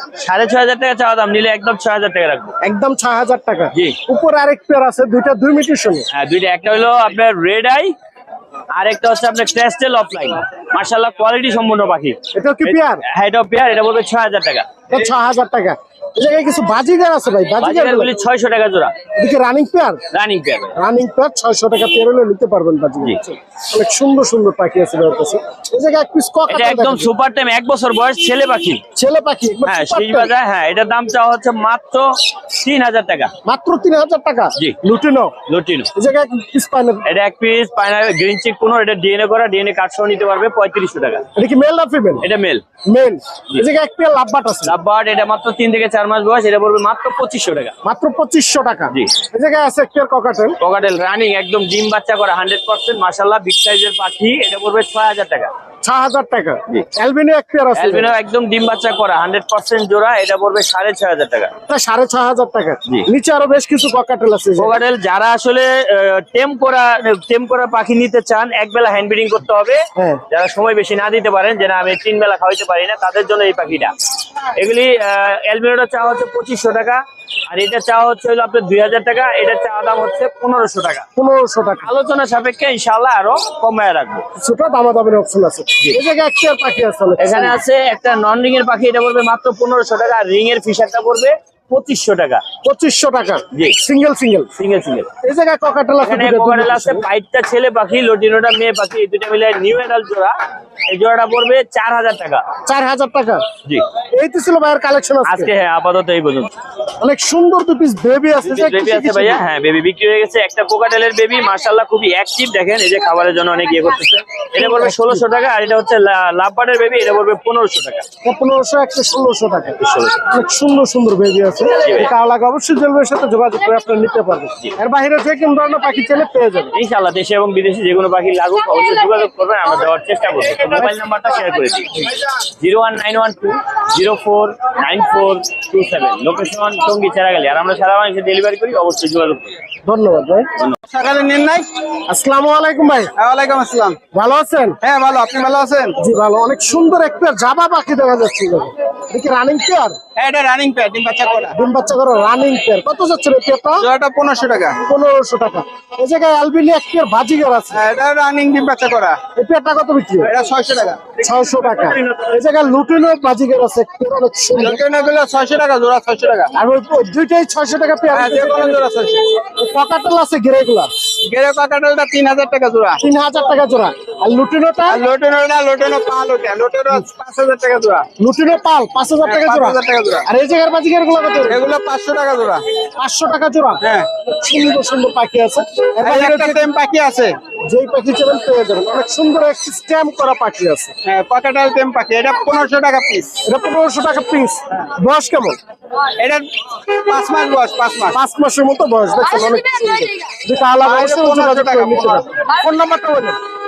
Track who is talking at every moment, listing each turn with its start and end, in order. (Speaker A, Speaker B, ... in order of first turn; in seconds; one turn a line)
Speaker A: 0.2-2.5
Speaker B: 2.6-6.1
Speaker A: 6.1-8.0
Speaker A: 8.8-14.7
Speaker B: 12.3-13.0
Speaker B: 14.9-18.2
Speaker A: 17.6-18.9
Speaker B: 19.2-20.0
Speaker A: 20.1-20.7
Speaker B: 20.8-27.1
Speaker A: 26.5-28.8
Speaker B: 28.9-30.3
Speaker A: 29.6-33.3
Speaker B: 33.5-35.4
Speaker A: 35.5-35.9
Speaker B: 35.9-37.0
Speaker A: 37.1-41.2
Speaker B: 41.4-42.3
Speaker A: 42.2-42.6
Speaker B: 42.9-44.8
Speaker A: 44.6-47.7
Speaker B: 47.8-50.6
Speaker A: 50.6-55.5
Speaker B: 55.8-58.1
Speaker A: 57.8-61.5
Speaker B: 61.7-64.8
Speaker A: 64.6-73.9
Speaker B: 70.0-70.2
Speaker A: 74.6-81.0
Speaker B: 81.2-81.9
Speaker A: 81.8-84.2
Speaker B: 84.3-87.6
Speaker A: 87.2-92.4
Speaker B: 92.6-94.5
Speaker A: 94.6-95.1
Speaker B: 95.2-97.1
Speaker A: 96.0-100.3
Speaker A: 100.9-102.4
Speaker B: 102.7-103.5
Speaker B: 104.1-105.5
Speaker A: 105.2-106.5
Speaker B: 107.0-109.4
Speaker A: 108.4-118.1
Speaker B: 114.6-115.2
Speaker B: 118.2-126.7
Speaker A: 119.8-120.2
Speaker A: 121.8-122.1
Speaker A: 126.8-139.5
Speaker B: 139.8-140.5
Speaker C: 140.9-141.7
Speaker B: 142.1-143.1
Speaker C: 143.2-144.0
Speaker B: 144.1-144.8
Speaker C: 144.8-145.9
Speaker B: 146.0-150.0
Speaker C: 150.2-151.5
Speaker B: 151.5-153.9
Speaker C: 153.9-154.8
Speaker B: 154.7-157.8
Speaker C: 157.8-159.1
Speaker B: 159.4-160.3
Speaker C: 160.4-161.0
Speaker B: 161.2-164.8
Speaker C: 164.7-166.4
Speaker B: 166.6-168.8
Speaker C: 168.5-169.2
Speaker B: 169.5-170.9
Speaker C: 171.3-173.0
Speaker B: 173.0-175.0
Speaker C: 175.1-178.0
Speaker B: 178.2-181.7
Speaker C: 179.3-180.2
Speaker C: 181.5-182.6
Speaker B: 183.0-186.7
Speaker C: 186.1-187.3
Speaker B: 187.7-190.9
Speaker C: 191.1-193.3
Speaker B: 193.4-195.6
Speaker C: 197.1-198.1
Speaker B: 198.1-203.4
Speaker C: 200.8-202.2